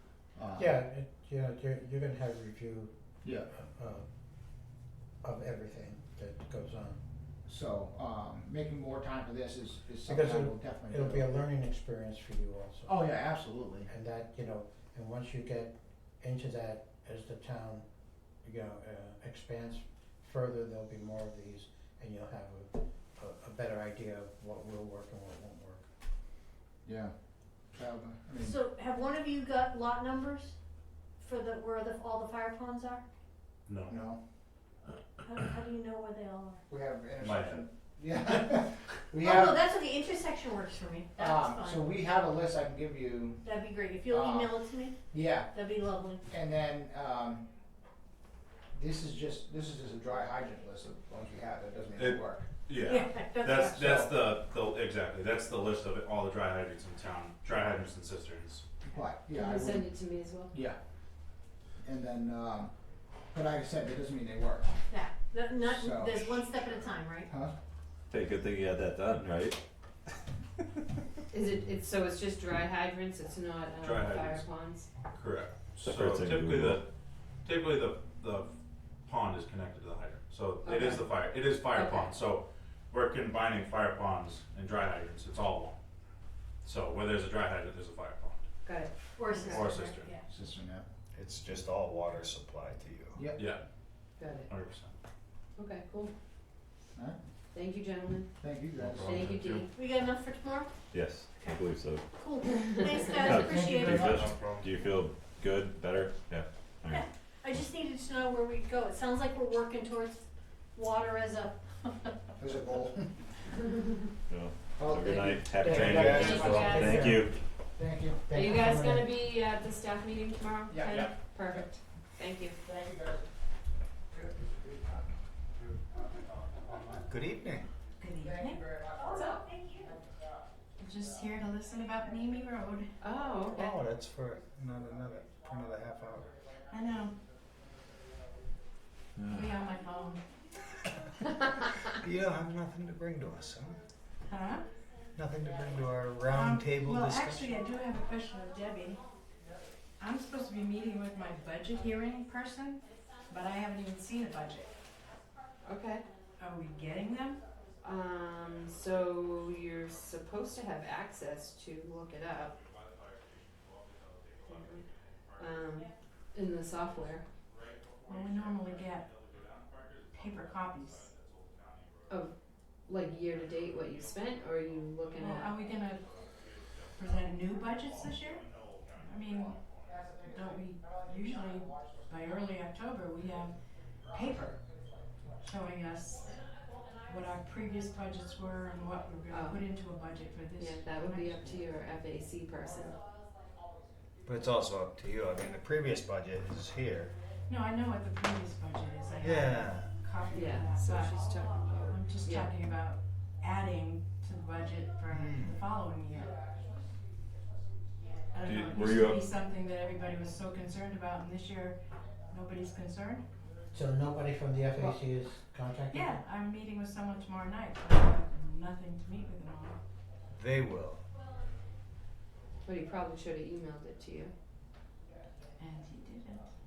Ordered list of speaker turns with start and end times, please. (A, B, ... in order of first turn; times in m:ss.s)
0:00.4-0:00.8 A
0:00.6-0:02.9 B
0:03.2-0:03.5 A
0:03.5-0:04.0 B
0:05.2-0:07.0 B
0:07.5-0:11.3 A
0:10.1-0:13.0 B
0:12.9-0:13.9 A
0:13.9-0:17.8 B
0:18.4-0:25.8 B
0:26.8-0:27.1 A
0:27.7-0:28.6 A
0:28.4-0:30.6 C
0:31.2-0:33.0 C
0:33.7-0:33.9 D
0:33.9-0:34.2 A
0:35.2-0:36.6 C
0:36.7-0:39.6 A
0:37.2-0:37.7 D
0:39.2-0:41.8 C
0:41.2-0:43.4 A
0:43.4-0:45.0 C
0:44.1-0:44.6 A
0:45.1-0:45.6 A
0:45.5-0:46.2 C
0:46.2-0:47.4 A
0:48.7-0:52.5 A
0:52.0-0:58.6 D
0:52.8-0:53.8 C
0:53.7-0:54.1 A
0:58.8-0:59.9 A
0:59.3-1:00.5 E
1:00.5-1:00.8 A
1:01.8-1:02.7 A
1:03.3-1:04.8 A
1:04.9-1:07.3 C
1:05.7-1:06.5 A
1:07.2-1:07.5 A
1:08.1-1:09.6 F
1:11.3-1:14.9 E
1:13.8-1:14.4 D
1:15.1-1:16.9 D
1:15.8-1:16.8 F
1:17.4-1:18.5 D
1:19.0-1:25.8 D
1:20.6-1:21.1 E
1:21.7-1:22.1 E
1:26.6-1:28.4 D
1:28.6-1:29.7 E
1:29.2-1:30.2 C
1:29.4-1:30.2 D
1:30.3-1:30.9 A
1:31.1-1:33.3 G
1:33.1-1:33.5 A
1:33.4-1:33.6 D
1:34.2-1:34.5 E
1:34.5-1:34.9 D
1:35.6-1:36.1 E
1:37.5-1:38.3 E
1:38.4-1:39.2 A
1:38.8-1:39.7 D
1:39.0-1:39.7 E
1:39.7-1:40.8 C
1:40.9-1:42.0 F
1:42.1-1:44.1 C
1:42.5-1:43.4 E
1:43.2-1:47.0 F
1:43.6-1:44.7 D
1:46.9-1:52.2 C
1:52.4-1:53.3 A
1:54.3-1:57.3 F
1:54.8-1:56.8 A
1:55.1-1:57.0 E
1:55.9-1:56.8 G
1:56.4-1:57.3 B
1:57.8-1:58.3 A
1:58.3-1:59.1 B
1:58.3-2:02.6 E
2:00.7-2:01.7 A
2:02.6-2:03.3 A
2:04.1-2:05.0 A
2:07.1-2:07.7 G
2:08.0-2:08.7 H
2:08.2-2:10.3 A
2:09.0-2:09.9 C
2:09.1-2:09.4 E
2:10.8-2:12.9 H
2:13.0-2:13.8 E
2:13.4-2:16.3 G
2:16.7-2:17.2 H
2:19.2-2:19.6 F
2:19.2-2:20.2 H
2:21.9-2:23.8 G
2:24.3-2:24.7 H
2:25.2-2:27.6 G
2:26.3-2:29.0 H
2:30.0-2:34.8 H
2:35.6-2:36.0 E
2:36.4-2:37.4 H
2:37.8-2:42.6 E
2:42.5-2:45.8 D
2:44.5-2:44.8 E
2:45.4-2:47.2 E
2:47.5-2:52.2 D
2:48.1-2:49.1 H
2:50.1-2:51.1 H
2:52.8-2:55.6 E
2:53.3-2:59.8 D
2:55.2-2:56.0 H
2:56.9-2:58.4 H
2:58.9-2:59.6 H
2:59.3-3:02.5 A
3:00.3-3:03.6 H
3:04.1-3:04.6 H
3:05.4-3:06.3 H
3:07.1-3:11.6 H
3:09.3-3:09.7 E
3:10.6-3:13.0 E
3:14.2-3:17.2 G
3:17.5-3:21.2 H
3:19.2-3:19.9 G
3:20.3-3:22.5 E
3:21.8-3:26.3 H
3:25.1-3:25.6 G
3:28.3-3:33.2 H
3:28.4-3:29.2 F
3:33.7-3:36.2 B
3:35.9-3:39.8 H
3:40.3-3:41.0 G
3:42.6-3:44.3 E
3:45.6-3:46.5 H